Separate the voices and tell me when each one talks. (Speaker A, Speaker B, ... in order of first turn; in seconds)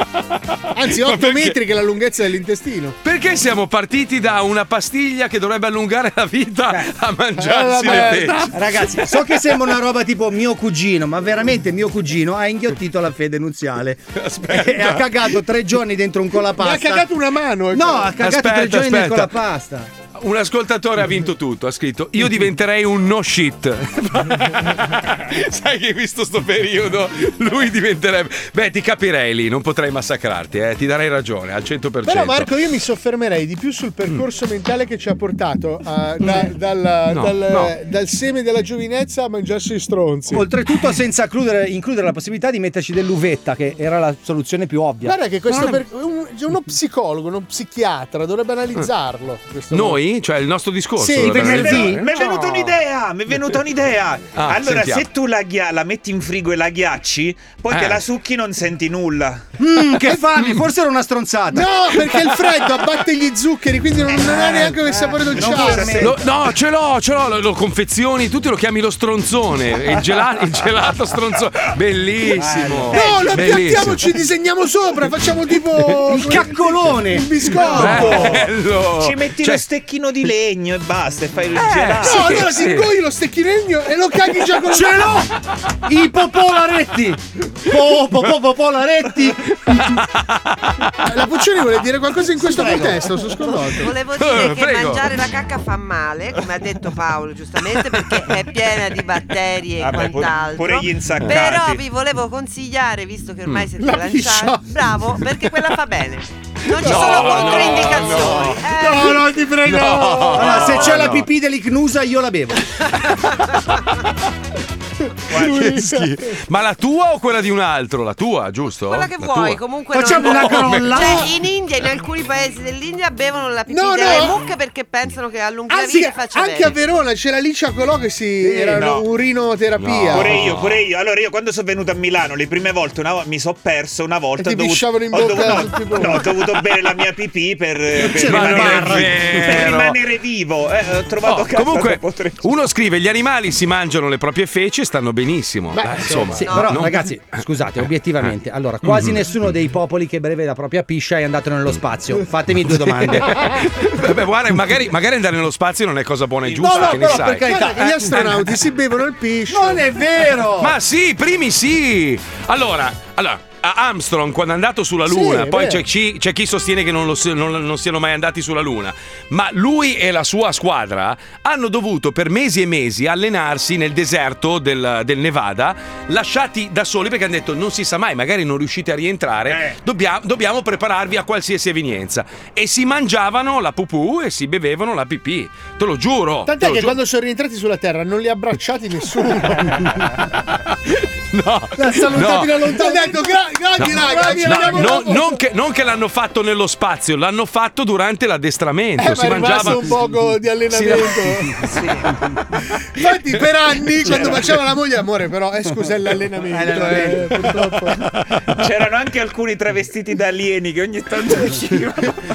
Speaker A: 0.7-3.0, 7.4-8.5, 16.6-18.2, 32.0-40.5, 45.0-50.0, 51.0-51.9, 61.5-66.0, 72.9-78.4, 82.0-85.1, 91.0-93.9, 103.8-104.7, 108.8-110.4, 115.3-116.2, 123.7-124.4, 125.7-130.4, 134.4-136.3, 145.7-146.4, 157.4-160.0, 165.1-165.8, 186.4-190.1, 192.6-195.4, 199.0-201.6, 202.9-208.0
Speaker B: 0.8-1.6, 3.0-9.4, 14.2-15.3, 18.2-19.3, 20.2-32.5, 36.2-36.5, 37.1-37.7, 49.7-52.8, 54.3-55.0, 57.7-58.0, 62.0-62.7, 65.9-74.0, 77.5-79.6, 81.6-82.9, 89.6-90.3, 94.2-95.1, 106.7-108.7, 109.6-111.3, 115.4-119.6, 120.2-121.1, 129.8-130.8, 138.0-140.0, 141.2-147.4, 148.2-149.3, 152.7-158.6, 160.6-187.0, 190.7-192.7, 193.8-200.0, 200.7-201.5
Speaker C: 7.8-17.1, 17.7-19.9, 40.3-45.1, 51.2-52.0, 59.6-61.6, 64.4-66.3, 72.3-73.3, 76.0-78.3, 84.7-85.3, 85.9-89.5, 92.4-93.0, 108.9-109.2, 110.3-112.6, 119.9-121.3, 128.4-128.8, 137.9-139.2, 146.3-153.5, 156.5-158.3, 159.5-160.8, 191.8-193.2, 193.8-195.1, 201.6-202.1, 206.5-207.5
Speaker D: 51.6-59.4, 65.5-66.0, 77.6-78.0, 79.0-82.4, 99.8-101.8, 115.3-115.6, 128.7-129.1, 130.1-142.5, 156.5-157.2, 179.5-179.8, 208.5-212.2
Speaker E: 93.7-109.4, 118.8-126.8, 146.4-146.8